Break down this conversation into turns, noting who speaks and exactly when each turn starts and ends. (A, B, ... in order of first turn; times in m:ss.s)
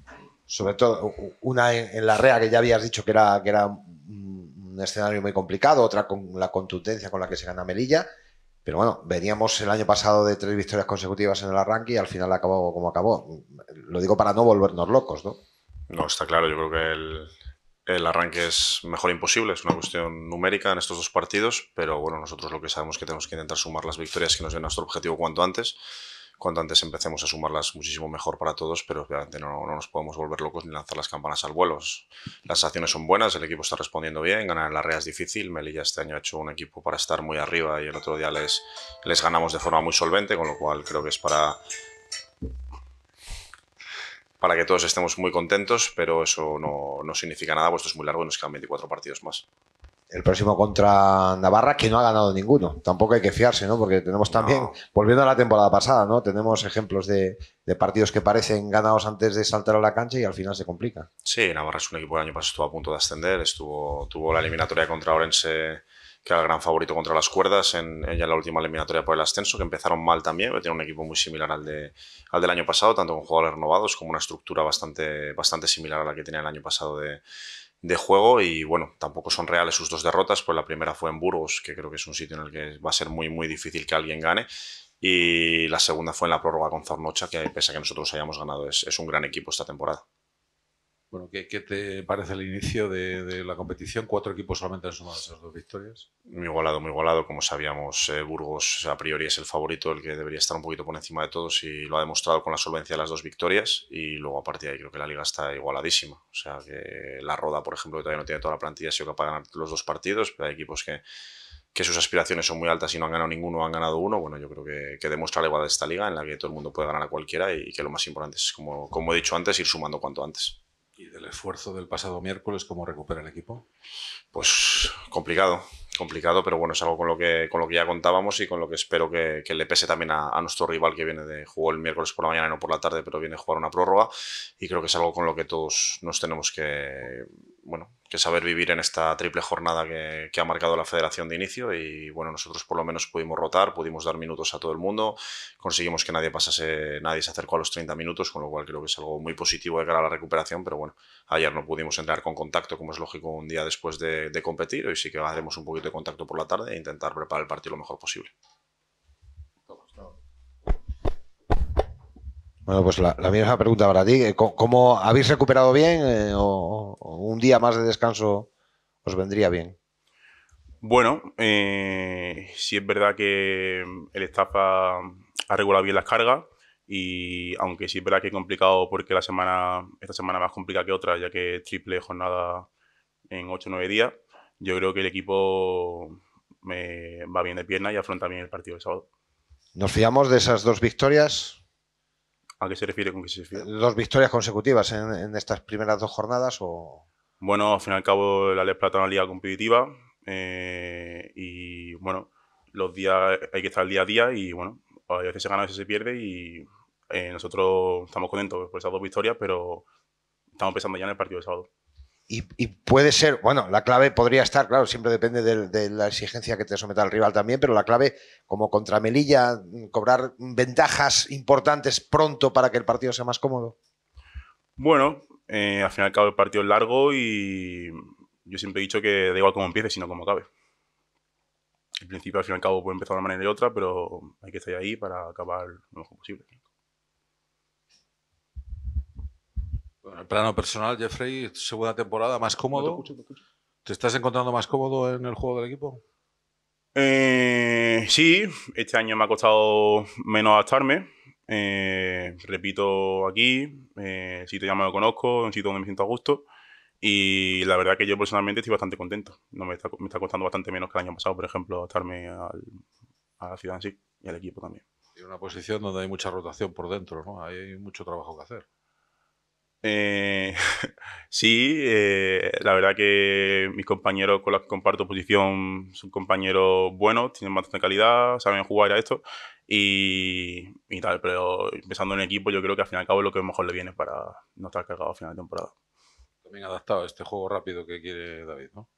0:00.5-0:08.1 A
0:08.6-0:15.4 A
0:15.9-0:17.3 B
0:17.9-0:25.8 B
0:26.4-0:41.6 B
0:44.4-0:49.4 B
0:50.1-1:01.1 A
0:54.3-0:54.7 B
1:01.2-1:17.2 B
1:17.8-1:24.5 B
1:25.0-1:30.0 B
1:31.1-1:36.0 C
1:36.3-1:51.0 B
1:51.7-2:00.6 B
2:01.0-2:03.6 C
2:04.3-2:38.3 B
2:42.7-2:48.5 A
2:49.0-2:49.8 A
2:50.8-3:02.7 D
3:03.3-3:09.0 D
3:09.8-3:11.6 A
3:12.6-3:13.7 D
3:13.5-3:17.0 A
3:17.4-3:29.8 D
3:30.5-3:31.7 D
3:32.3-3:43.8 A
3:44.8-3:50.5 D
3:52.0-3:56.5 D
4:00.0-4:03.0 C
4:02.7-4:03.4 D
4:03.8-4:06.0 C
4:06.9-4:16.5 D
4:17.0-4:22.8 D
4:23.4-4:24.8 D
4:25.2-4:28.6 C
4:29.8-4:45.7 D
4:46.4-4:48.9 C